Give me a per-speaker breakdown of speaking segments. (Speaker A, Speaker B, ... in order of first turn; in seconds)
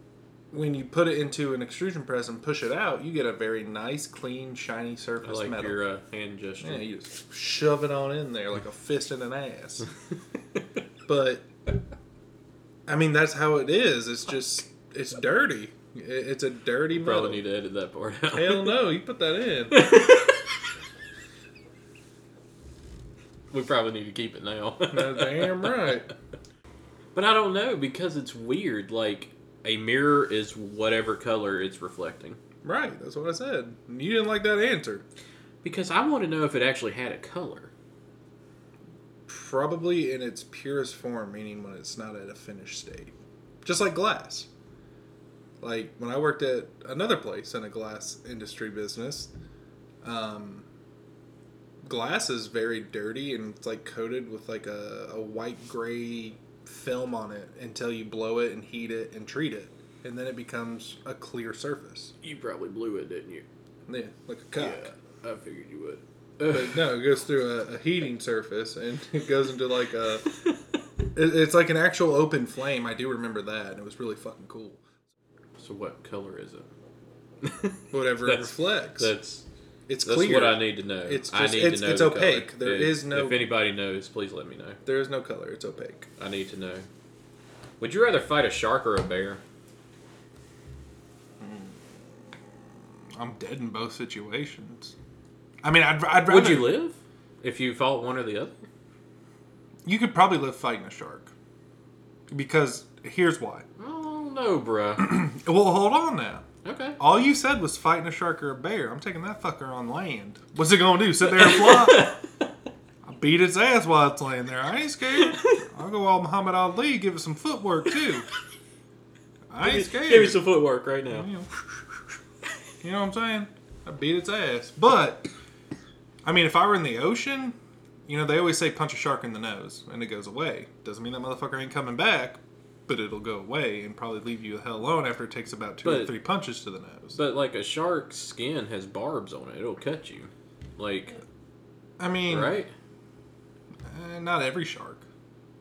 Speaker A: 0.5-5.8, 6.6-9.9, 11.1-11.5, 12.9-17.4, 18.3-19.8, 24.9-26.1, 32.6-35.0, 39.3-43.1, 43.6-44.5, 45.6-49.3, 50.0-50.6, 51.8-62.1, 63.9-64.9, 66.5-70.2, 71.1-74.8, 77.9-79.1, 79.9-83.5, 84.8-86.1, 91.4-92.0, 93.1-94.9, 95.6-96.7, 99.8-101.3, 102.3-103.7, 105.0-106.4, 107.0-112.1, 113.0-118.3, 119.5-120.4, 121.1-121.5, 122.8-125.3, 126.2-137.2, 142.0-142.6, 143.8-145.0
Speaker B: 5.2-6.8, 16.9-18.8, 19.7-20.4, 23.5-25.9, 27.1-32.4, 35.6-37.7, 62.2-63.5, 64.5-66.9, 75.6-76.7, 77.4-79.4, 80.0-84.8, 86.2-86.9, 87.8-89.4, 96.2-98.6, 103.8-105.0, 106.6-107.0, 111.2-112.2, 115.1-115.6, 119.6-121.3, 135.8-136.1, 137.1-141.2, 142.3-142.7